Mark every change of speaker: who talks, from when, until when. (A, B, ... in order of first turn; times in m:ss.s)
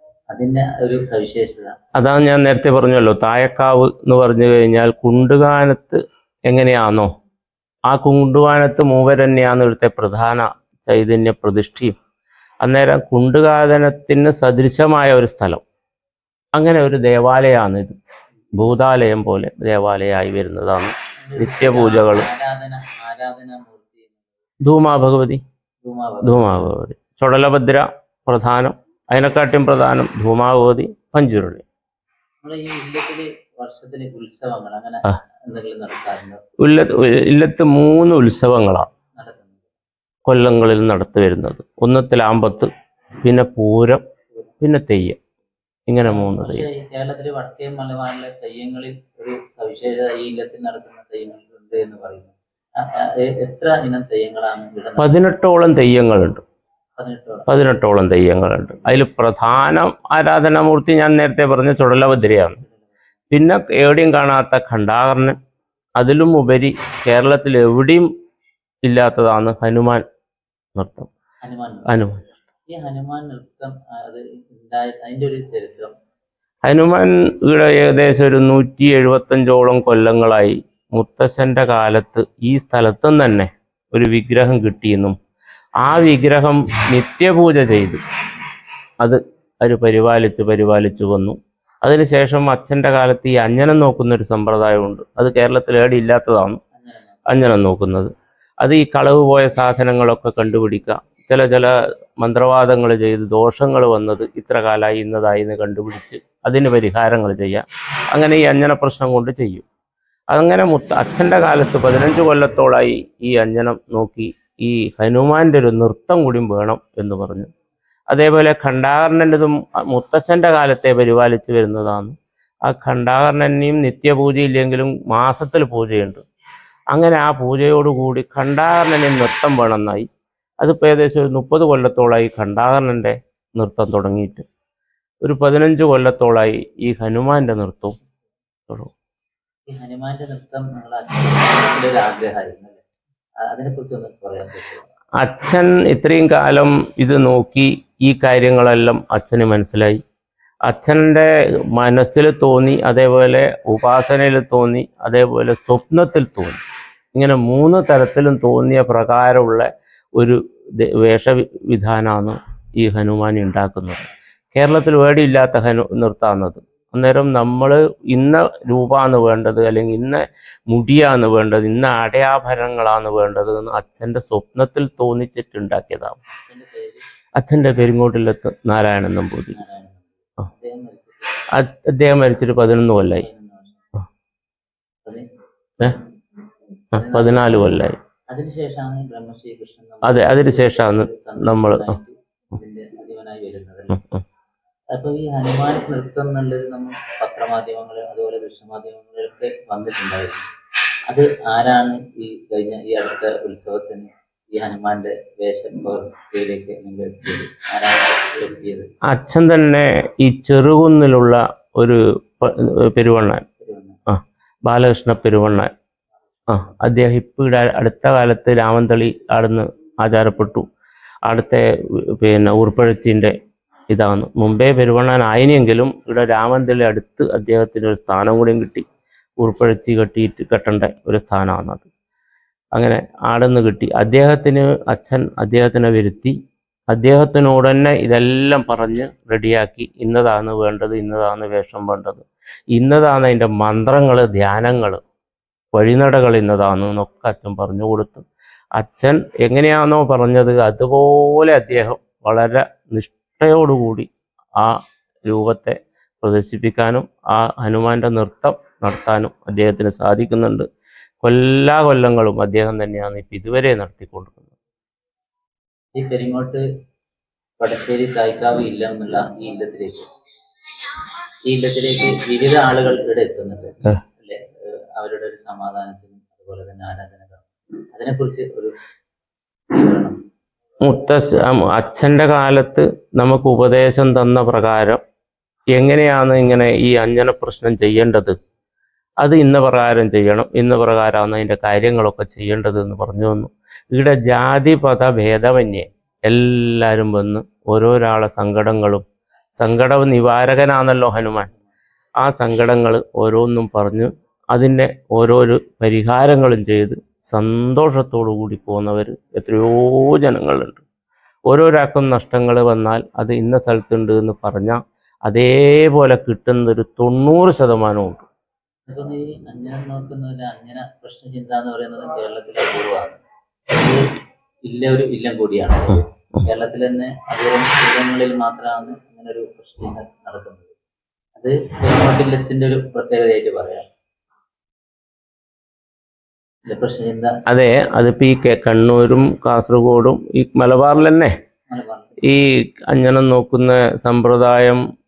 0:00.3-0:01.7 A
0:01.9-0:07.1 B
0:07.9-0:12.0 B
0:12.6-0:15.6 B
0:16.5-0:18.0 B
0:18.5-0:22.3 B
0:21.2-0:24.2 A
0:24.6-0:25.4 B
0:25.8-0:26.7 A
0:26.2-0:31.6 B
0:32.4-0:36.4 A
0:36.6-0:38.9 B
0:39.2-0:39.6 A
0:40.2-0:42.7 B
0:43.2-0:44.0 B
0:44.6-0:45.2 B
0:45.9-0:46.6 B
0:46.0-0:52.3 A
0:53.0-0:55.2 A
0:55.0-0:56.4 B
0:57.0-0:57.5 A
0:57.5-1:02.6 B
1:02.5-1:02.9 A
1:03.3-1:05.4 B
1:06.0-1:08.1 B
1:08.8-1:10.0 B
1:10.8-1:11.1 B
1:11.4-1:12.0 A
1:11.9-1:12.3 B
1:12.7-1:15.9 A
1:16.6-1:25.2 B
1:25.8-1:28.0 B
1:29.0-1:36.6 B
1:36.7-1:37.5 A
1:37.3-1:49.6 B
1:50.3-1:57.5 B
1:58.1-2:06.2 B
2:06.9-2:10.1 B
2:10.6-2:14.4 B
2:15.2-2:18.0 B
2:19.7-2:22.8 A
2:23.4-2:24.8 A
2:25.2-2:30.0 B
2:30.7-2:36.6 B
2:37.1-2:56.2 B
2:56.3-2:57.0 A
2:57.4-2:59.6 B
2:59.5-3:01.5 A
3:01.5-3:03.2 B
3:03.2-3:03.8 A
3:06.9-3:08.0 B
3:06.9-3:14.0 A
3:10.0-3:11.9 B
3:13.9-3:14.2 B
3:14.9-3:20.5 A
3:21.1-3:28.9 A
3:29.1-3:33.4 B
3:33.6-3:34.0 A
3:34.1-3:35.7 B
3:36.5-3:40.6 B
3:41.2-3:41.6 B
3:42.2-3:43.3 B
3:43.9-3:48.8 B
3:49.4-3:51.9 B
3:52.8-3:56.3 B
3:56.9-4:05.0 B
4:05.8-4:08.2 B
4:08.8-4:14.1 B
4:14.6-4:20.7 B
4:21.2-4:24.5 B
4:26.0-4:26.6 A
4:27.6-4:30.1 A
4:31.5-4:34.4 A
4:35.0-4:38.7 A
4:39.7-4:40.2 A
4:40.8-4:45.0 B
4:45.7-4:48.4 B
4:49.2-4:59.0 B
4:59.6-5:01.5 B
5:02.2-5:10.8 B
5:11.5-5:18.2 B
5:18.9-5:24.0 A
5:24.7-5:30.7 A
5:31.4-5:33.8 A
5:36.7-5:37.3 A
5:37.5-5:41.3 B
5:41.7-5:42.3 A
5:42.3-5:44.8 B